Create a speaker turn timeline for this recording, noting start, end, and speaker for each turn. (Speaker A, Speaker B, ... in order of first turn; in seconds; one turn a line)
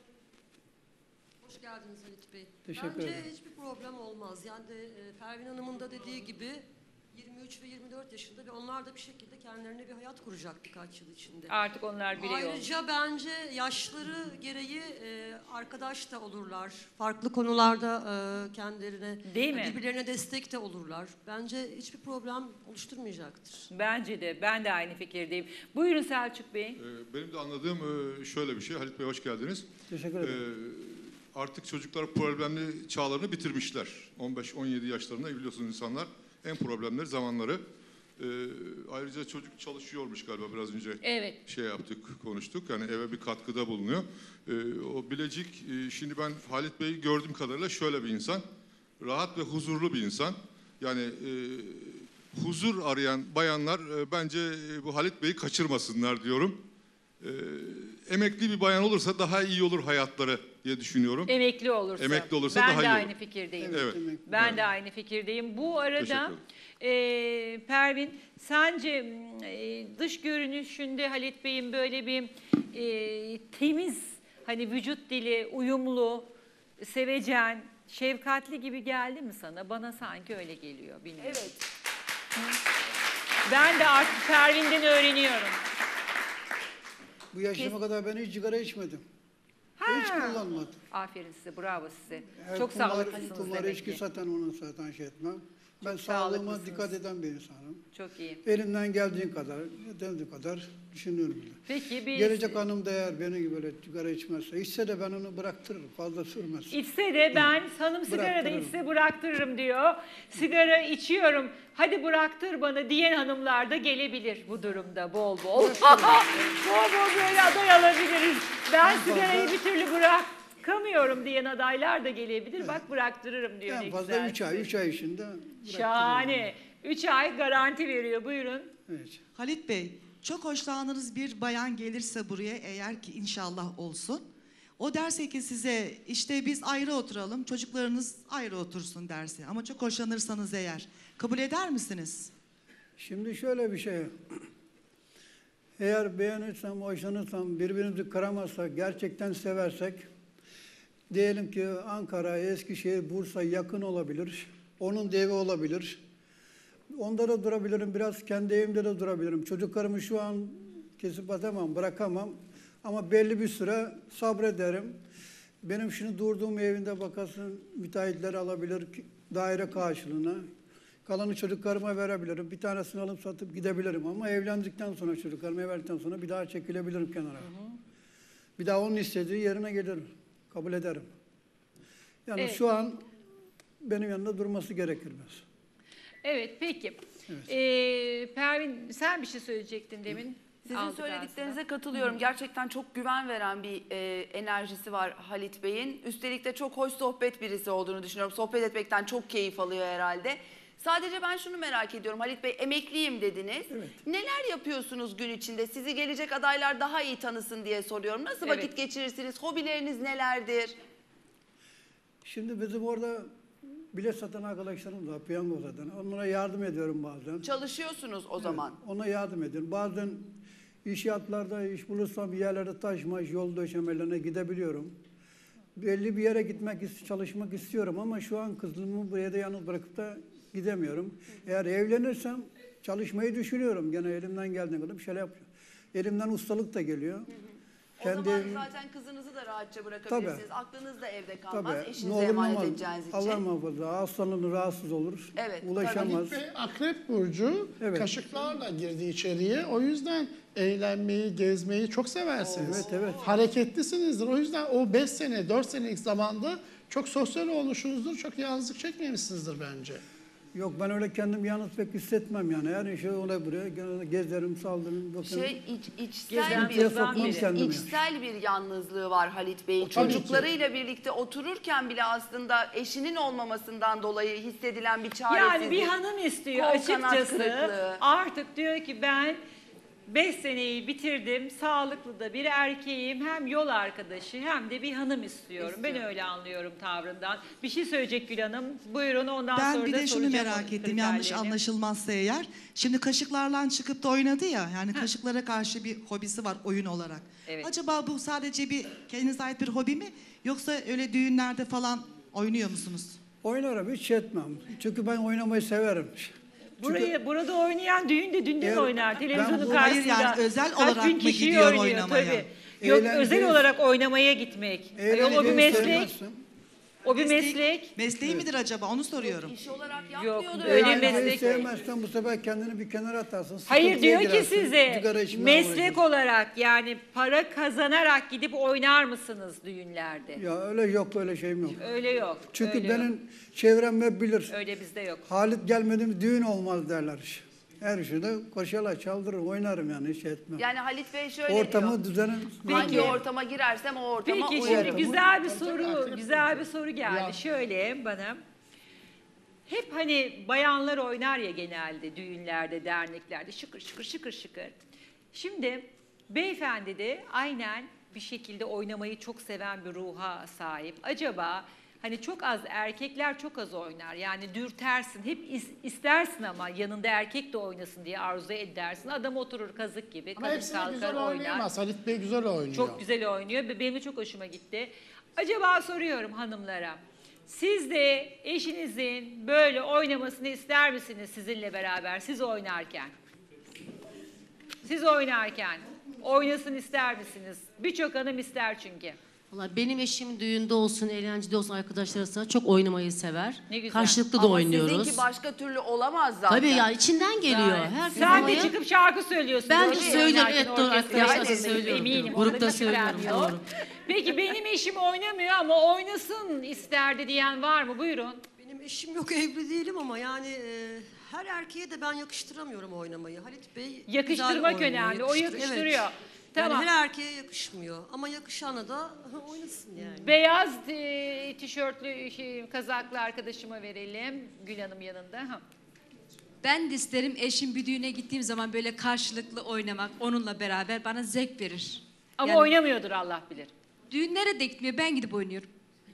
Speaker A: 1.4-11.6
Speaker B: 2.6-3.3
Speaker C: 11.5-12.7
Speaker A: 12.2-23.7
Speaker C: 19.3-19.7
Speaker C: 23.7-26.8
Speaker D: 26.8-29.6
Speaker B: 29.9-30.4
Speaker D: 30.2-37.6
Speaker D: 38.2-48.4
Speaker C: 41.0-41.4
Speaker D: 49.0-56.6
Speaker D: 57.2-61.3
Speaker C: 61.3-81.4
Speaker D: 62.0-63.1
Speaker B: 63.6-64.4
Speaker D: 63.7-64.6
Speaker D: 66.0-66.4
Speaker E: 81.2-81.6
Speaker C: 83.5-85.6
Speaker B: 87.3-89.0
Speaker C: 89.8-94.0
Speaker B: 89.9-90.8
Speaker B: 92.4-97.8
Speaker C: 95.8-96.9
Speaker C: 97.9-98.4
Speaker B: 98.4-101.6
Speaker C: 101.7-102.6
Speaker B: 102.1-106.8
Speaker C: 106.7-124.7
Speaker B: 108.1-108.7
Speaker B: 115.6-116.2
Speaker B: 118.8-119.5
Speaker B: 123.7-126.5
Speaker C: 125.7-128.7
Speaker B: 128.9-129.2
Speaker F: 129.3-134.2
Speaker F: 134.8-142.3
Speaker B: 143.0-144.1
Speaker B: 145.8-150.1
Speaker B: 151.1-156.0
Speaker B: 156.9-165.0
Speaker B: 165.6-170.4
Speaker B: 171.1-177.5
Speaker C: 177.4-177.7
Speaker B: 178.6-181.1
Speaker B: 182.2-183.0
Speaker B: 183.8-185.4
Speaker C: 186.2-192.2
Speaker E: 190.7-210.7
Speaker B: 203.7-204.0
Speaker C: 208.4-208.7
Speaker B: 212.2-213.3
Speaker B: 213.9-217.5
Speaker E: 217.4-218.8
Speaker B: 218.4-224.9
Speaker B: 225.8-237.3
Speaker E: 238.0-243.4
Speaker B: 238.0-238.6
Speaker B: 240.1-240.4
Speaker B: 241.5-246.4
Speaker E: 245.3-246.2
Speaker G: 245.9-260.0
Speaker B: 247.8-248.1
Speaker E: 252.4-253.4
Speaker B: 252.6-253.3
Speaker B: 260.5-265.5
Speaker E: 265.2-275.9
Speaker C: 266.3-267.5
Speaker B: 266.4-267.9
Speaker G: 269.8-270.5
Speaker C: 275.3-279.4
Speaker E: 276.5-278.0
Speaker C: 280.1-291.6
Speaker E: 285.6-286.0
Speaker F: 289.5-303.2
Speaker C: 297.4-297.7
Speaker B: 303.4-307.1
Speaker C: 306.8-316.1
Speaker B: 308.6-309.9
Speaker F: 309.3-312.4
Speaker B: 312.8-313.6
Speaker B: 314.9-316.4
Speaker F: 315.5-315.9
Speaker C: 317.0-318.0
Speaker F: 317.1-319.5
Speaker E: 319.2-321.7
Speaker C: 320.2-321.6
Speaker B: 320.6-326.0
Speaker C: 323.7-330.4
Speaker B: 330.4-331.8
Speaker C: 331.8-333.1
Speaker B: 332.5-334.5
Speaker C: 334.5-335.2
Speaker B: 335.3-340.6
Speaker E: 340.6-342.0
Speaker B: 341.5-343.2
Speaker C: 342.6-343.2
Speaker E: 342.7-345.1
Speaker C: 344.2-348.4
Speaker B: 344.6-345.2
Speaker G: 344.8-347.4
Speaker C: 349.7-354.8
Speaker C: 355.3-371.7
Speaker G: 370.4-373.0
Speaker C: 372.7-383.1
Speaker C: 384.8-389.2
Speaker H: 389.5-395.2
Speaker C: 393.7-394.2
Speaker E: 394.3-398.7
Speaker H: 396.5-398.7
Speaker C: 398.1-408.4
Speaker H: 399.7-403.6
Speaker E: 399.7-402.7
Speaker A: 408.6-420.4
Speaker C: 414.1-416.9
Speaker C: 420.2-425.6
Speaker I: 426.6-432.7
Speaker C: 432.4-433.7
Speaker I: 434.1-435.7